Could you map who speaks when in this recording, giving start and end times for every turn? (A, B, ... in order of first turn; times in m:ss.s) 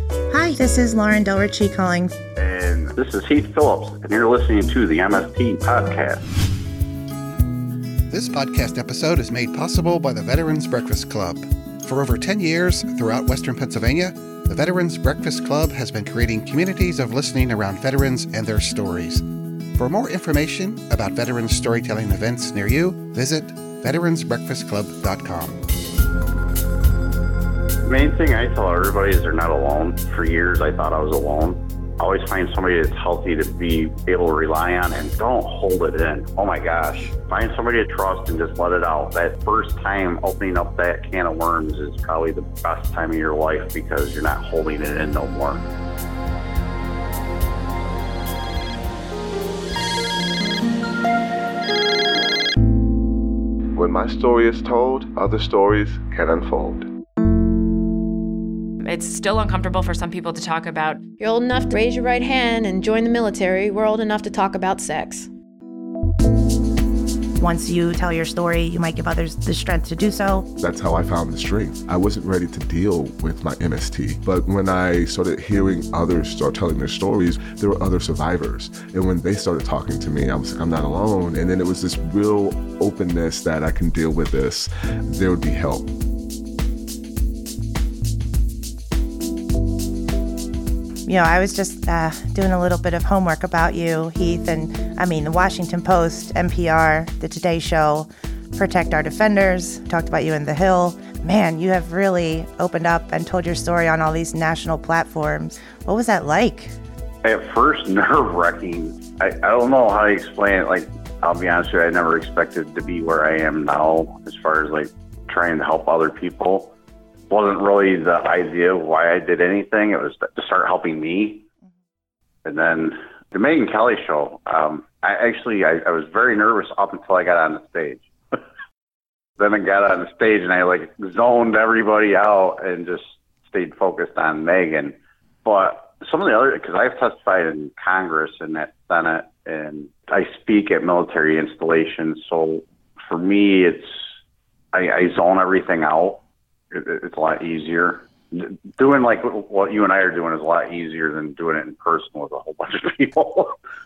0:00.3-0:02.2 A
0:02.4-0:06.2 B
0:08.1-0:19.2 C
0:19.7-0:25.6 C
0:27.8-0:45.6 B
0:53.7-0:56.9 D
0:58.8-1:01.2 E
1:01.1-1:05.3 F
1:07.4-1:10.5 A
1:10.6-1:25.9 D
1:31.1-1:46.7 A
1:47.2-1:56.7 B
1:57.3-2:01.4 B
2:02.4-2:08.4 B
2:09.4-2:24.1 B
2:24.7-2:26.2 B
2:26.7-2:33.5 B